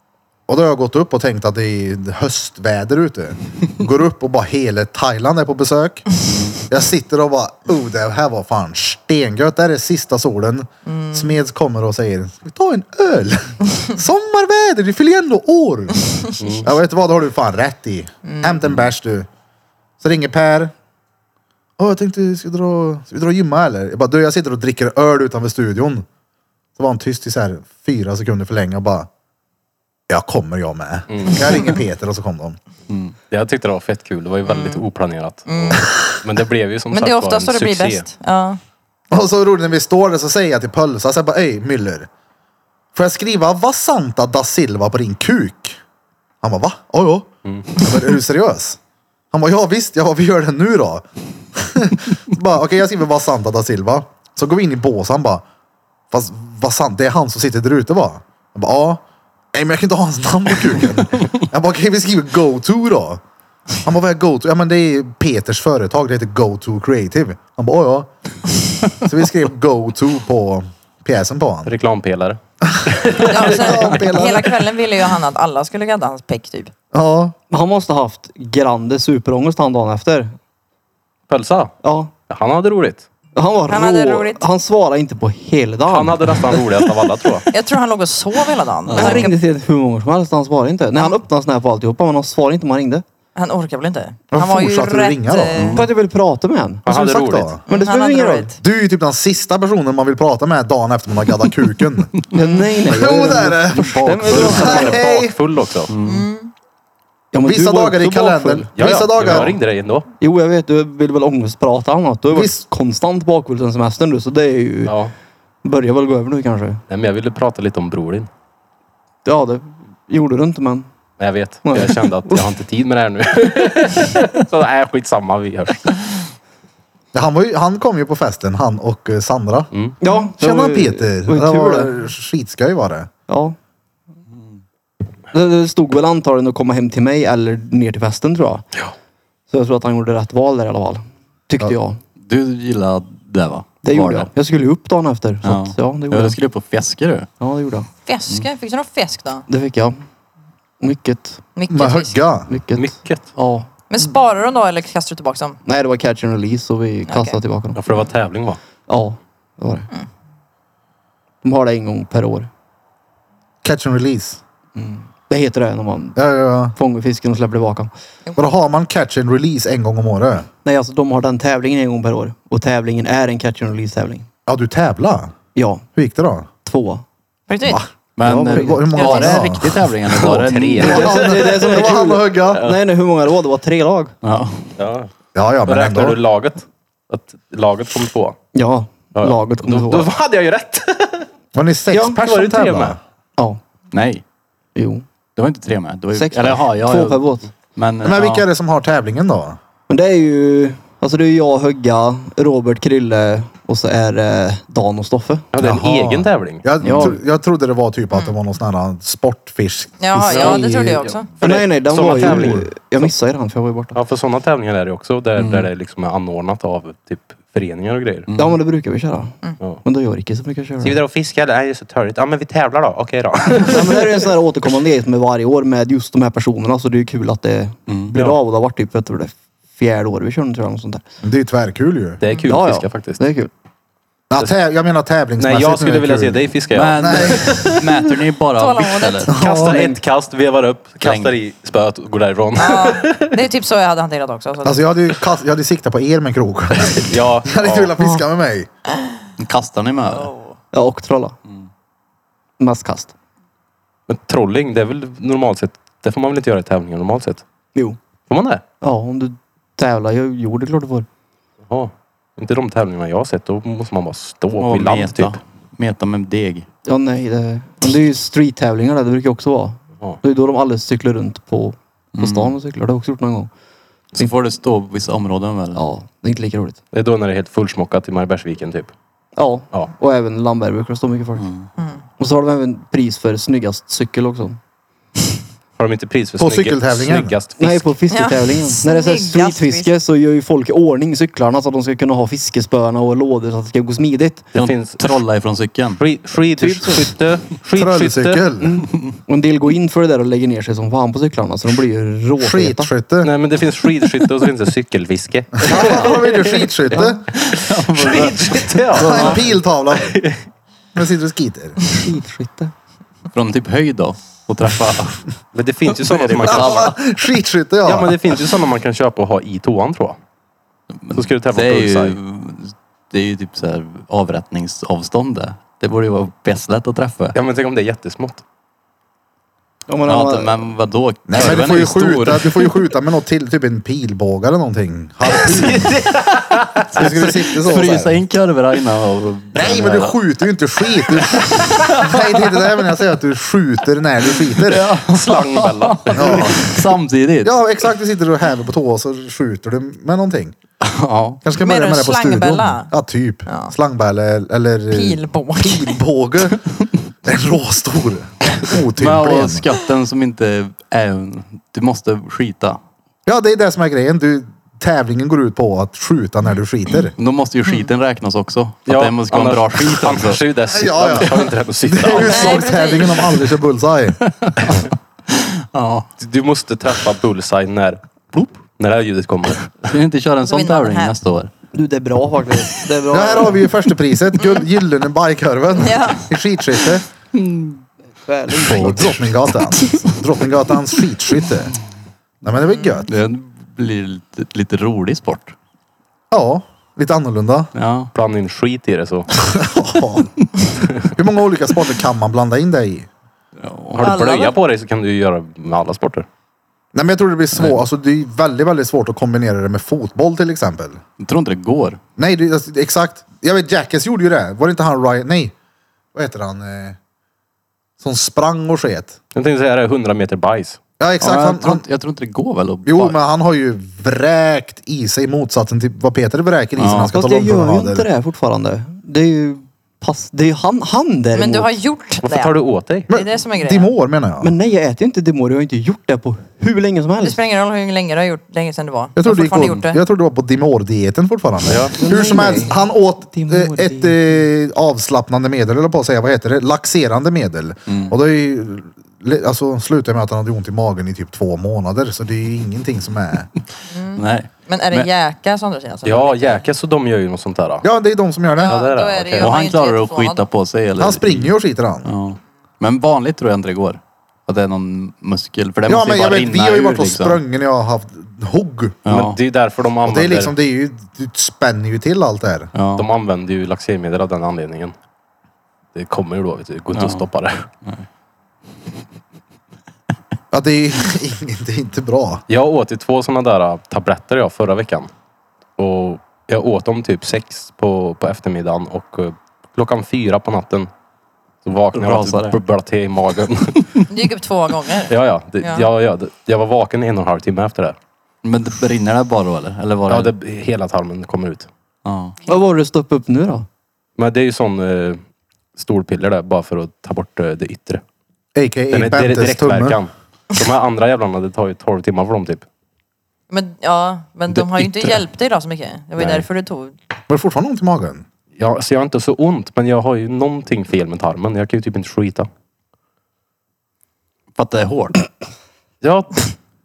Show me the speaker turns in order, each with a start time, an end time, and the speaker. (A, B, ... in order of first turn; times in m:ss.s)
0:00.5-0:06.1 A
0:06.2-0:06.6 B
0:06.7-0:19.3 A
0:10.9-0:11.4 C
0:16.4-0:16.7 D
0:18.2-0:18.6 C
0:20.0-0:20.7 A
0:21.8-0:26.1 A
0:26.8-0:29.1 A
0:30.1-0:32.6 A
0:31.1-0:31.4 D
0:32.9-0:33.2 B
0:33.3-0:38.1 D
0:34.5-0:34.8 C
0:35.5-0:35.9 C
0:36.9-0:38.6 C
0:39.1-0:42.1 A
0:43.0-0:45.8 A
0:46.4-0:48.8 A
0:47.4-0:47.7 D
0:49.3-0:55.4 A
0:56.1-1:03.2 A
1:03.8-1:08.1 A
1:08.9-1:11.7 A
1:11.7-1:13.9 D
1:12.7-1:14.6 A
1:13.2-1:16.7 C
1:16.9-1:17.4 A
1:17.5-1:20.4 E
1:21.3-1:21.7 D
1:21.8-1:22.1 E
1:22.3-1:23.1 D
1:23.4-1:26.8 E
1:23.7-1:24.4 C
1:25.9-1:27.5 D
1:27.5-1:29.4 C
1:28.9-1:29.3 B
1:28.9-1:33.0 E
1:33.4-1:35.8 C
1:34.3-1:35.7 A
1:35.5-1:35.9 B
1:35.7-1:36.8 E
1:36.9-1:37.6 D
1:36.9-1:37.6 A
1:37.7-1:38.6 C
1:37.7-1:38.5 E
1:38.6-1:42.1 A
1:42.3-1:45.0 E
1:42.9-1:45.4 A
1:44.2-1:44.7 B
1:44.3-1:45.9 D
1:45.9-1:46.3 B
1:46.0-1:46.5 C
1:47.3-1:48.7 E
1:47.4-1:49.6 A
1:48.8-1:50.1 D
1:50.2-1:55.0 E
1:52.3-1:52.6 A
1:54.9-1:55.1 D
1:55.6-1:56.8 E
1:56.9-1:58.3 D
1:59.2-2:00.9 E
2:01.2-2:06.2 D
2:01.6-2:02.4 E
2:07.1-2:09.7 A
2:10.0-2:11.9 E
2:10.4-2:13.1 A
2:13.3-2:13.6 E
2:15.3-2:18.6 E
2:19.5-2:22.0 E
2:22.2-2:24.3 B
2:23.8-2:26.4 E
2:25.4-2:27.3 B
2:27.4-2:27.9 E
2:28.1-2:29.4 C
2:29.5-2:30.0 E
2:30.8-2:31.4 E
2:31.6-2:32.2 C
2:31.7-2:32.5 A
2:32.5-2:33.7 E
2:32.8-2:33.2 D
2:33.9-2:35.6 C
2:35.6-2:37.8 E
2:37.1-2:37.4 C
2:37.8-2:38.6 D
2:38.9-2:39.9 E
2:41.4-2:42.5 E
2:43.6-2:44.4 A
2:44.8-2:46.2 E
2:46.2-2:46.8 A
2:46.7-2:47.9 E
2:48.4-2:50.5 A
2:50.6-2:54.3 E
2:54.5-2:55.3 A
2:55.6-2:55.8 E
2:56.0-2:56.5 A
2:56.6-2:57.0 E
2:57.5-2:57.8 C
2:58.2-3:01.2 B
2:58.2-2:59.3 E
2:58.4-2:59.9 A
2:59.0-2:59.4 C
3:00.0-3:01.7 D
3:00.8-3:02.6 A
3:00.8-3:04.2 E
3:04.2-3:04.7 B
3:04.8-3:05.1 D
3:05.4-3:06.2 A
3:05.7-3:08.4 D
3:08.5-3:10.1 E
3:09.2-3:11.3 D
3:11.5-3:13.0 A
3:11.9-3:12.2 E
3:12.2-3:13.0 D
3:13.9-3:14.2 B
3:14.8-3:15.0 E
3:15.4-3:17.2 B
3:16.1-3:17.5 E
3:17.8-3:18.5 B
3:18.0-3:19.6 A
3:19.9-3:25.5 E
3:25.5-3:26.7 D
3:25.6-3:31.0 A
3:26.8-3:27.2 E
3:30.0-3:31.3 C
3:30.3-3:30.6 D
3:31.4-3:32.7 D
3:31.4-3:34.0 E
3:32.2-3:32.5 A
3:33.9-3:38.3 D
3:35.4-3:35.7 B
3:38.3-3:38.6 B
3:38.4-3:41.0 E
3:40.8-3:44.1 D
3:43.6-3:51.0 E
3:47.9-3:48.1 B
3:51.2-3:52.2 A
3:52.2-3:53.2 D
3:52.4-3:53.5 E
3:54.3-3:57.7 A
3:55.4-3:57.8 D
3:56.7-3:59.3 B
3:58.6-3:59.4 C
3:59.3-3:59.9 A
3:59.4-4:03.4 D
4:01.0-4:01.3 B
4:02.6-4:04.8 C
4:04.6-4:08.7 A
4:06.8-4:07.9 D
4:08.0-4:08.2 E
4:09.4-4:10.3 B
4:10.1-4:10.5 C
4:10.7-4:11.4 E
4:12.6-4:13.1 E
4:14.1-4:17.4 D
4:18.3-4:18.6 D
4:18.8-4:21.1 E
4:21.7-4:25.4 D
4:24.6-4:26.7 B
4:26.9-4:33.5 E
4:32.2-4:32.5 B
4:34.2-4:35.8 B
4:35.8-4:36.8 E
4:36.9-4:38.9 D
4:39.4-4:41.5 E
4:41.4-4:41.7 B
4:42.2-4:44.6 E
4:45.8-4:48.0 D
4:46.4-4:47.4 A
4:47.6-4:54.5 E
4:48.1-4:49.9 C
4:54.5-4:56.0 B
4:54.6-4:55.0 D
4:56.0-4:58.4 D
4:56.6-4:57.1 E
4:57.8-4:58.8 A
4:58.6-5:02.9 E
5:02.4-5:03.3 A
5:03.2-5:07.0 D
5:05.6-5:07.2 A
5:07.0-5:09.4 B
5:07.7-5:10.4 D
5:08.9-5:10.2 A
5:09.1-5:09.4 E
5:11.0-5:11.8 A
5:11.9-5:12.7 E
5:13.3-5:15.2 B
5:15.5-5:17.0 D
5:15.9-5:17.0 B
5:16.4-5:18.4 A
5:17.8-5:20.2 D
5:20.9-5:27.4 B
5:21.1-5:22.2 D
5:27.4-5:28.4 D
5:29.9-5:30.7 E
5:30.1-5:32.8 B
5:31.3-5:36.0 A
5:35.5-5:36.8 D
5:35.7-5:36.1 B
5:36.9-5:40.2 B
5:36.9-5:38.2 A
5:39.5-5:44.9 A
5:41.3-5:42.5 B
5:44.6-5:47.6 B
5:45.1-5:46.7 D
5:46.1-5:46.7 A
5:47.4-5:50.6 A
5:50.8-5:51.4 B
5:51.4-5:56.7 A
5:51.6-5:52.9 C
5:53.5-5:53.7 C
5:54.9-5:56.0 C
5:57.2-5:59.7 A
5:59.0-6:02.8 B
6:03.3-6:07.1 A
6:07.2-6:10.4 B
6:08.9-6:12.7 D
6:10.7-6:14.2 A
6:12.2-6:13.3 C
6:14.4-6:16.1 B
6:16.2-6:19.9 D
6:19.9-6:21.5 B
6:20.4-6:21.2 C
6:21.7-6:23.7 E
6:23.1-6:27.0 A
6:24.4-6:24.7 C
6:25.8-6:26.3 C
6:27.3-6:27.8 B
6:28.2-6:29.2 E
6:28.6-6:31.7 A
6:28.7-6:29.0 B
6:29.5-6:30.2 B
6:32.4-6:33.1 A
6:33.1-6:35.6 B
6:36.3-6:37.7 A
6:37.8-6:38.1 B
6:38.1-6:39.3 D
6:39.4-6:40.3 A
6:41.0-6:43.1 A
6:43.6-6:44.2 B
6:44.0-6:46.3 D
6:44.0-6:44.6 C
6:46.9-6:51.0 A
6:51.2-6:52.0 B
6:52.2-6:55.5 A
6:56.1-6:57.0 A
6:58.0-6:59.2 A
6:59.4-7:00.8 D
7:01.0-7:01.8 A
7:01.2-7:03.2 B
7:02.8-7:08.1 A
7:06.8-7:07.1 B
7:07.1-7:11.8 E
7:11.3-7:12.6 C
7:12.2-7:13.1 D
7:13.1-7:13.9 C
7:13.1-7:14.5 A
7:14.4-7:17.4 E
7:17.2-7:20.0 C
7:19.2-7:33.5 A
7:21.7-7:21.9 D
7:22.0-7:24.5 E
7:27.9-7:28.2 B
7:33.9-7:36.6 C
7:34.2-7:35.1 B
7:36.0-7:37.9 D
7:37.8-7:38.8 A
7:38.6-7:40.5 C
7:38.6-7:39.5 D
7:39.4-7:41.5 B
7:41.0-7:42.1 A
7:42.0-7:47.4 B
7:45.9-7:49.0 A
7:49.0-7:49.4 B
7:49.1-7:50.5 D
7:50.1-7:52.7 A
7:52.7-7:53.1 B
7:53.0-7:55.0 D
7:56.0-7:57.7 D
7:56.9-7:57.2 B
8:00.5-8:02.4 A
8:02.5-8:05.1 D
8:05.8-8:10.9 D
8:11.6-8:14.1 D
8:11.9-8:12.6 B
8:14.1-8:15.9 C
8:15.1-8:18.0 D
8:18.4-8:20.3 B
8:20.1-8:21.7 D
8:22.0-8:22.4 B
8:22.5-8:23.7 E
8:24.2-8:25.2 D
8:25.8-8:28.0 D
8:28.6-8:30.0 A
8:28.9-8:32.6 D
8:33.5-8:37.0 C
8:34.6-8:35.2 B
8:36.2-8:36.4 D
8:37.3-8:38.2 A
8:38.6-8:42.5 D
8:44.6-8:45.3 B
8:46.0-8:46.5 D